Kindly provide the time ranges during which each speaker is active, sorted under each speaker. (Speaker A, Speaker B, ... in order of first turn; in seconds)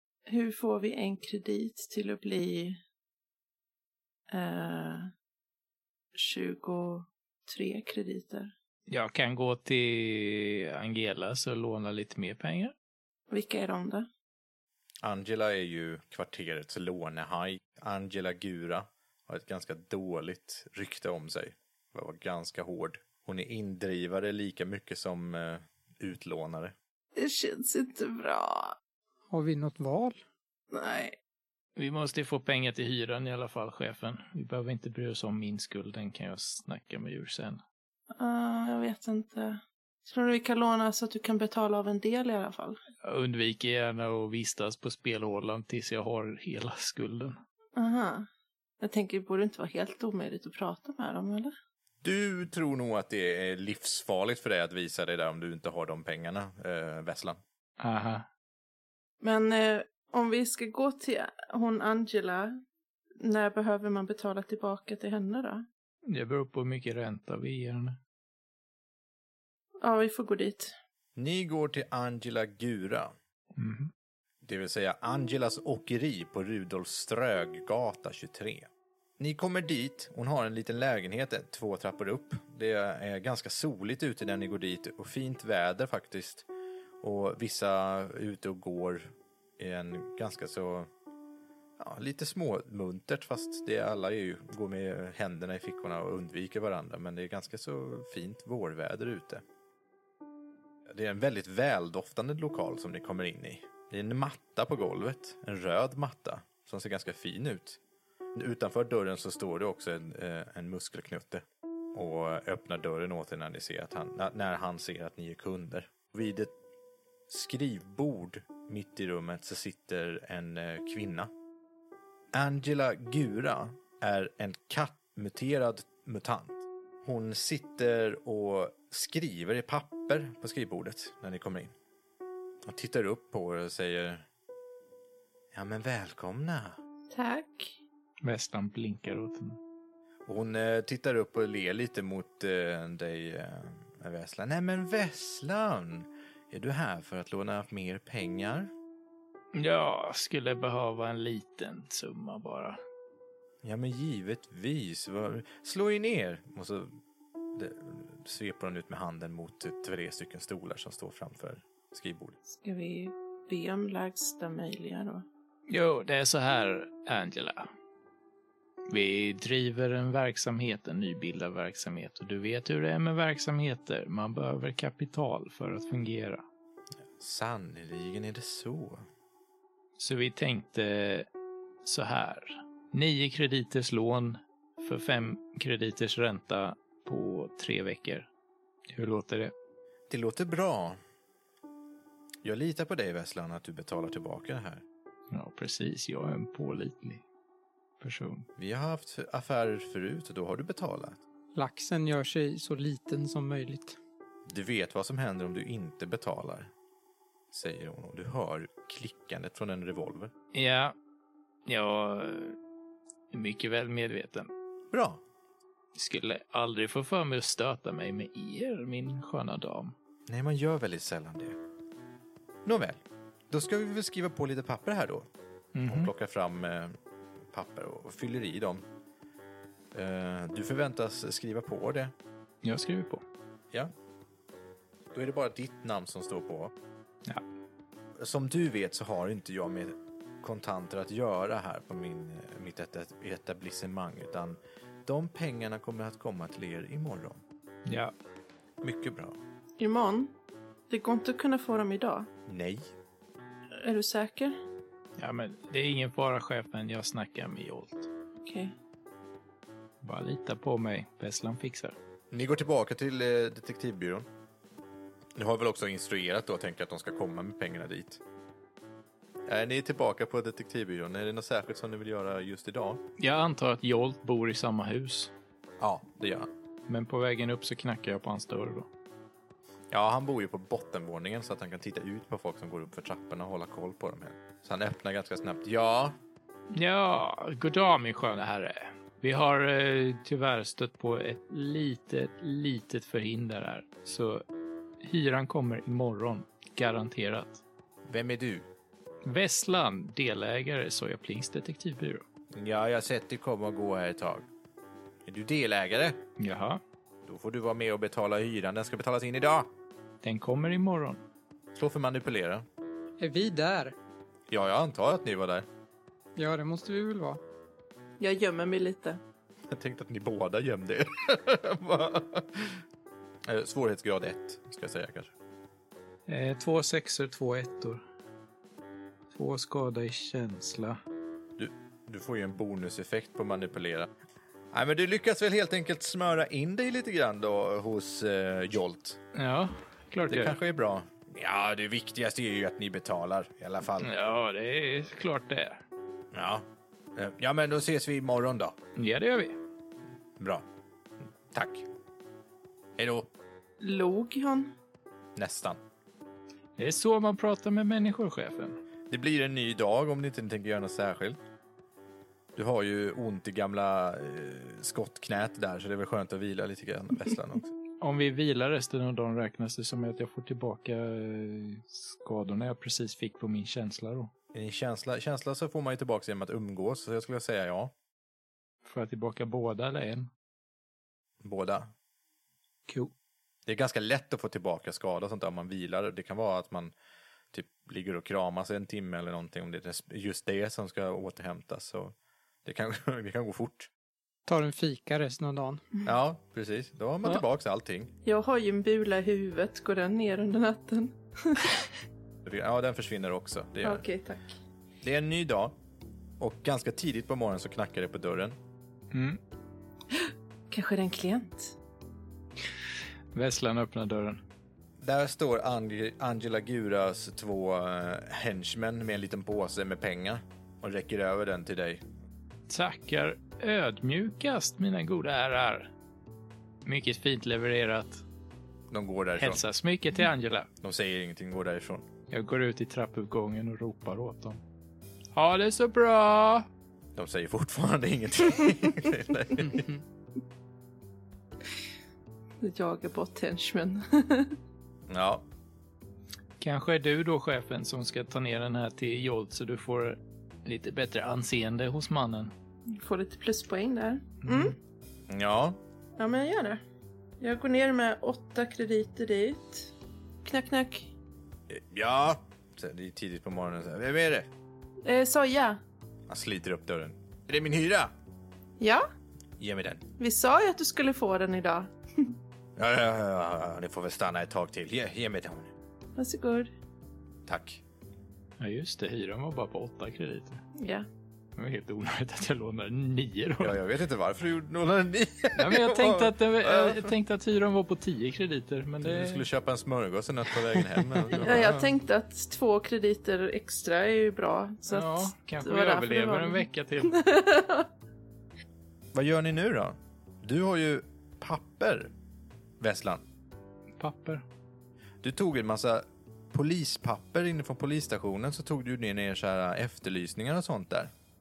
Speaker A: 0.3-2.8, 4.3-5.1, 6.1-8.5, 13.3-14.1, 27.1-28.8, 30.7-31.2, 38.1-42.8, 47.8-48.3, 48.8-51.5, 59.2-62.6, 63.2-65.7, 69.8-70.7, 137.1-137.8, 162.5-165.2, 249.8-250.3, 250.9-252.3, 253.7-254.6, 258.4-258.7, 318.2-319.2, 353.8-354.7, 398.2-401.9, 403.8-404.6, 410.1-411.7, 442.6-444.6, 452.9-454.8, 456.2-456.8, 457.4-459.9, 460.4-461.1, 465.0-465.8, 468.8-469.0, 470.2-472.3, 476.1-476.7, 480.8-481.1, 491.3-497.9
Speaker B: 8.9-12.7, 31.8-37.6, 43.0-47.4, 57.8-58.2, 66.1-68.0, 73.5-73.9, 138.2-139.6, 149.5-152.8, 165.7-167.7, 168.9-176.4, 180.0-181.3, 181.8-188.3, 188.9-189.5, 195.3-197.2, 198.0-198.5, 210.5-210.9, 211.7-212.6, 213.3-214.5, 215.9-219.9, 225.7-226.1, 232.6-233.2, 247.8-248.1, 255.2-258.1, 260.0-261.9, 273.2-275.3, 276.9-278.9, 286.7-294.4, 295.0-297.6, 299.2-302.2, 306.4-306.8, 310.2-311.2, 326.3-328.0, 329.3-331.0, 339.3-340.6, 344.0-345.8, 348.9-349.6, 356.8-358.8, 368.0-374.3, 378.8-380.3, 409.1-409.4, 413.3-414.4, 422.7-425.9, 426.8-428.2, 429.4-430.7, 432.3-434.6, 435.3-436.7, 446.6-452.5, 454.4-454.7, 478.6-480.6, 481.6-483.8, 485.5-489.4, 491.3-491.6, 494.9-497.1, 504.0-504.4
Speaker C: 15.0-26.7, 52.0-57.4, 71.2-73.1, 74.4-86.5, 87.0-90.9, 91.8-99.4, 100.9-107.8, 108.3-116.5, 117.3-121.3, 122.3-131.7, 132.6-134.2, 135.5-136.8, 140.2-148.7, 153.6-156.9, 157.5-162.4, 177.2-179.0, 190.1-191.0, 192.4-194.8, 198.6-201.2, 204.5-206.7, 207.5-210.3, 214.9-215.2, 220.3-221.6, 222.6-225.2, 225.8-226.9, 227.5-228.8, 229.9-232.1, 235.1-236.7, 238.2-247.4, 248.8-249.4, 252.5-252.9, 262.3-264.3, 265.4-268.2, 269.5-273.0, 275.8-276.5, 279.9-286.1, 298.1-298.6, 302.5-304.4, 305.2-306.2, 307.2-309.7, 311.7-312.6, 314.5-315.6, 319.7-322.8, 323.4-325.3, 331.6-334.1, 334.7-339.2, 340.3-344.1, 346.3-346.6, 347.1-348.8, 350.4-350.6, 351.5-351.9, 353.0-353.3, 355.4-355.8, 359.1-361.4, 362.5-367.7, 374.5-377.9, 381.4-381.9, 383.6-386.9, 387.5-393.9, 396.0-398.1, 402.4-404.0, 405.0-405.8, 406.4-408.6, 415.0-422.0, 428.9-429.6, 430.8-432.0, 437.1-439.9, 445.1-445.4, 455.3-455.8, 461.7-464.5, 466.3-468.1, 469.6-470.1, 472.8-475.7, 477.4-477.8, 483.6-487.1, 489.0-491.9, 499.1-502.1, 502.8-503.2, 505.2-511.1
Speaker D: 29.3-30.2, 201.5-204.0, 313.2-313.9, 316.4-317.4, 394.4-395.8